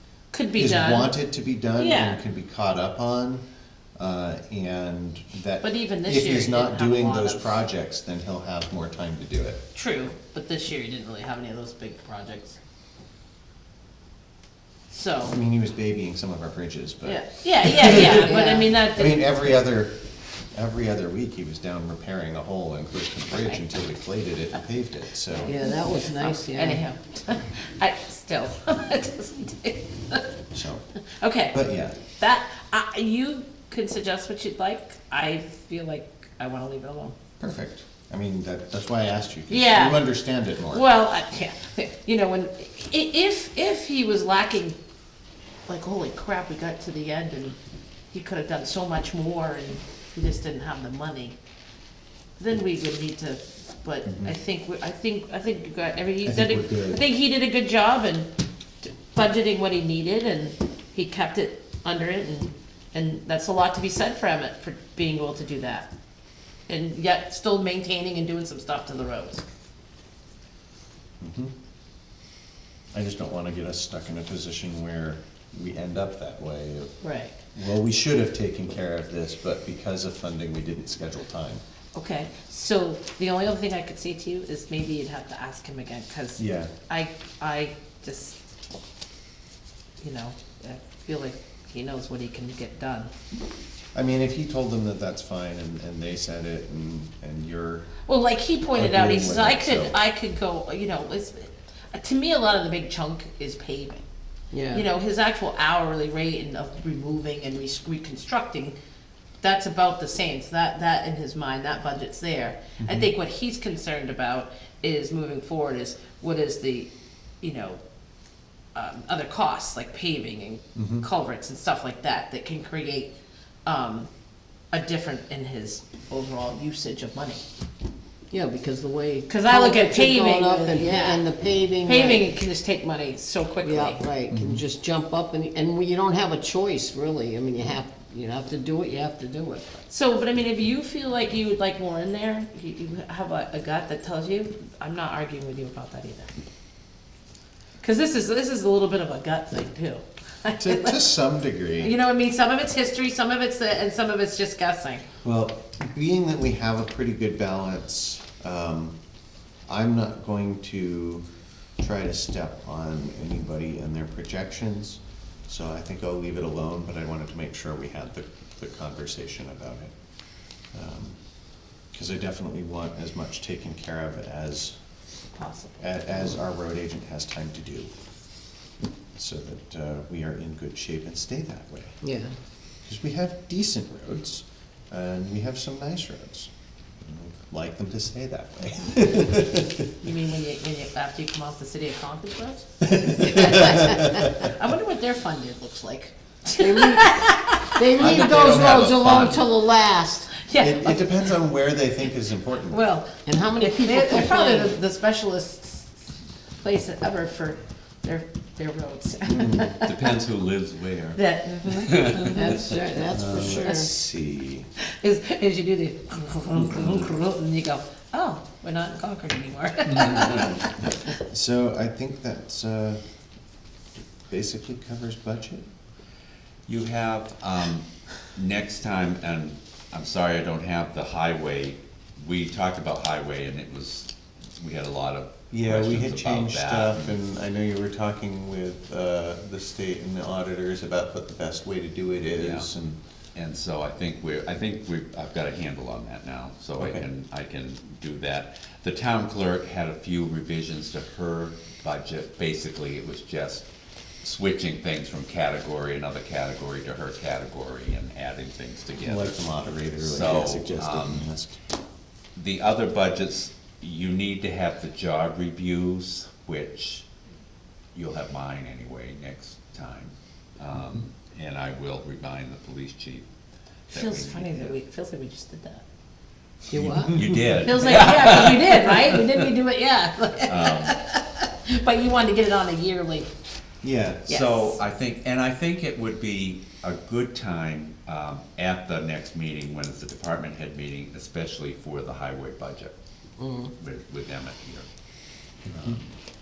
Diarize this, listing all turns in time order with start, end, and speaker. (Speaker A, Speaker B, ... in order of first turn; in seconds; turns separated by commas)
Speaker A: 0.3-1.1, Speaker B: 0.6-3.4, Speaker A: 1.8-2.2, Speaker B: 4.0-9.6, Speaker A: 5.6-7.6, Speaker A: 9.7-12.6, Speaker A: 14.9-15.3, Speaker B: 15.3-18.3, Speaker A: 17.0-19.4, Speaker C: 18.0-18.7, Speaker B: 18.8-20.0, Speaker B: 20.5-25.6, Speaker A: 25.3-30.2, Speaker C: 25.4-26.8, Speaker B: 30.5-30.8, Speaker A: 31.2-31.5, Speaker B: 31.5-32.0, Speaker A: 32.1-37.2, Speaker B: 37.4-40.8, Speaker A: 39.5-40.1, Speaker A: 40.7-44.8, Speaker A: 45.7-47.6, Speaker A: 48.1-51.3, Speaker A: 52.4-58.3, Speaker B: 54.0-54.3, Speaker B: 56.2-57.0, Speaker A: 58.8-65.9, Speaker A: 66.7-69.4, Speaker B: 71.2-71.5, Speaker B: 72.9-76.9, Speaker A: 77.0-77.3, Speaker B: 77.5-81.6, Speaker A: 81.9-88.4, Speaker B: 86.4-86.7, Speaker A: 90.0-93.1, Speaker B: 93.9-97.9, Speaker A: 98.1-104.0, Speaker B: 98.7-100.0, Speaker C: 104.5-104.8, Speaker A: 104.7-108.8, Speaker A: 109.4-116.9, Speaker B: 112.8-113.1, Speaker A: 117.4-117.8, Speaker A: 118.7-123.1, Speaker B: 120.8-121.0, Speaker A: 123.7-124.1, Speaker A: 124.7-127.4, Speaker C: 128.3-132.2, Speaker A: 129.3-131.3, Speaker A: 131.8-134.0, Speaker C: 133.6-139.8, Speaker B: 134.3-134.6, Speaker A: 139.9-146.3, Speaker A: 147.8-151.1, Speaker B: 150.5-151.9, Speaker A: 151.8-155.0, Speaker B: 155.2-158.9, Speaker B: 159.7-161.3, Speaker B: 161.8-169.9, Speaker B: 170.7-171.2, Speaker B: 171.9-174.8, Speaker A: 175.3-175.8, Speaker B: 175.8-177.9, Speaker B: 179.1-182.0, Speaker C: 182.0-182.3, Speaker B: 182.8-186.5, Speaker B: 187.0-189.8, Speaker A: 190.0-198.5, Speaker B: 192.9-194.5, Speaker C: 196.5-197.2, Speaker C: 197.7-200.3, Speaker B: 198.0-199.3, Speaker D: 198.2-199.3, Speaker A: 200.3-201.4, Speaker B: 200.6-202.8, Speaker A: 202.7-210.0, Speaker C: 203.2-204.8, Speaker B: 209.3-209.8, Speaker D: 209.8-212.5, Speaker A: 211.2-212.7, Speaker C: 212.1-213.9, Speaker B: 213.1-214.7, Speaker A: 213.3-213.8, Speaker A: 215.0-220.7, Speaker B: 221.1-223.0, Speaker B: 224.2-225.7, Speaker D: 226.7-237.2, Speaker B: 235.5-243.0, Speaker D: 242.3-242.7, Speaker D: 243.3-253.7, Speaker B: 246.8-247.0, Speaker D: 254.2-261.2, Speaker B: 259.0-261.6, Speaker D: 262.3-267.1, Speaker D: 267.9-273.3, Speaker D: 273.9-274.7, Speaker A: 273.9-275.8, Speaker C: 276.7-277.3, Speaker D: 276.7-279.2, Speaker A: 277.6-283.3, Speaker D: 280.4-280.9, Speaker B: 283.8-284.3, Speaker D: 284.3-292.9, Speaker A: 284.3-284.8, Speaker C: 293.4-293.7, Speaker D: 293.8-294.9, Speaker B: 295.7-296.0, Speaker D: 295.8-296.1